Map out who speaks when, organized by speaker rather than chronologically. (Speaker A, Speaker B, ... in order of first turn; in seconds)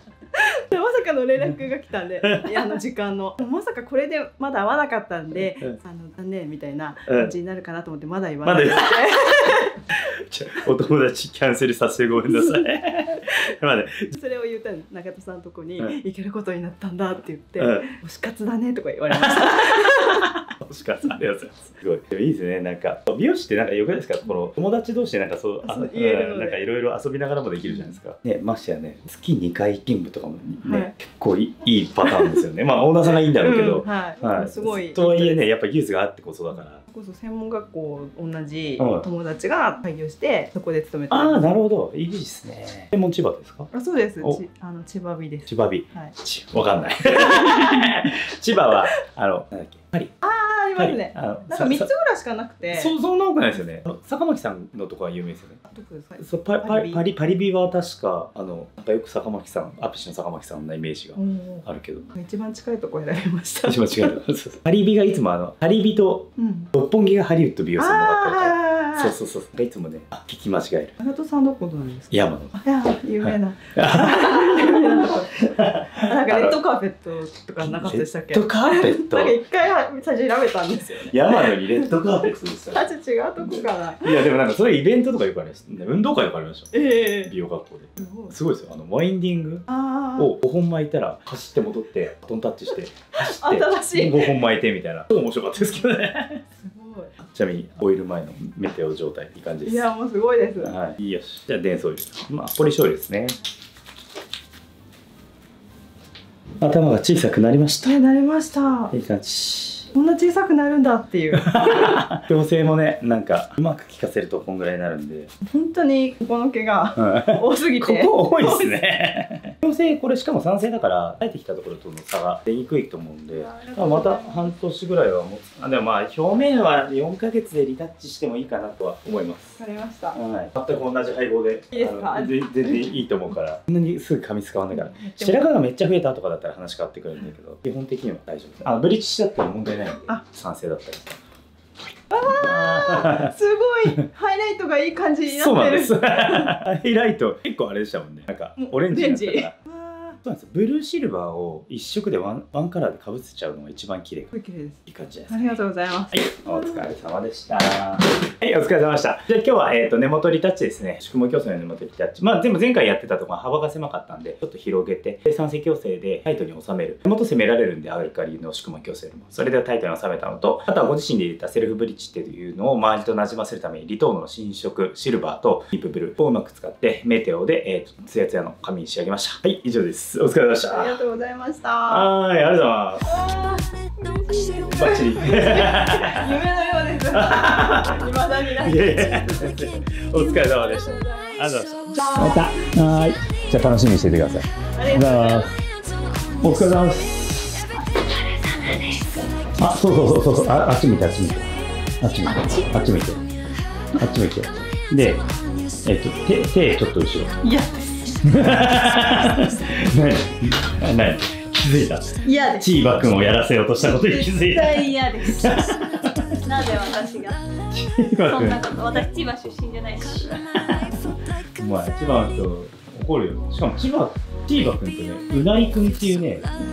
Speaker A: 0.3-9.8, 14.1-20.3, 25.6-26.6, 30.6-30.9, 33.4-35.4, 36.9-41.5, 43.7-46.1, 47.1-48.0, 50.2-52.9, 55.7-57.0, 61.1-64.1, 66.4-66.7, 67.8-69.1, 71.0-75.4, 75.9-81.8, 82.7-84.2, 86.7-87.3, 88.0-88.3, 89.7-90.3, 93.2-94.4, 96.6-97.2, 99.6-100.7, 107.8-108.9, 109.9-112.0, 115.4-118.8, 123.4-124.5, 129.6-130.2, 131.7-132.9, 134.9-135.4, 142.1-146.6, 148.6-150.2, 154.3-156.8, 180.7-182.1, 183.1-189.5, 190.2-192.5, 194.8-195.5
Speaker B: 2.2-2.8, 7.1-7.3, 8.4-14.1, 17.6-17.9, 19.1-36.8, 38.8-39.1, 41.1-43.7, 45.5-50.1, 50.8-51.9, 52.7-55.6, 56.2-62.1, 63.6-71.0, 72.1-72.6, 73.2-76.6, 77.6-79.4, 81.0-96.4, 97.2-99.9, 100.6-103.4, 106.6-107.9, 108.9-109.9, 111.4-115.3, 117.0-129.6, 130.1-141.2, 141.8-143.3, 145.3-149.6, 150.2-154.3, 154.9-181.0, 181.9-183.2, 184.7-186.4, 187.1-195.5, 196.4-197.7, 199.6-201.5, 202.0-203.2, 203.9-205.3, 205.8-207.4, 208.2-216.4, 217.7-218.6, 220.3-221.0, 221.6-226.6
Speaker C: 197.9-199.2, 202.3-202.7, 207.4-208.2, 212.2-212.7, 213.9-217.5, 218.2-220.7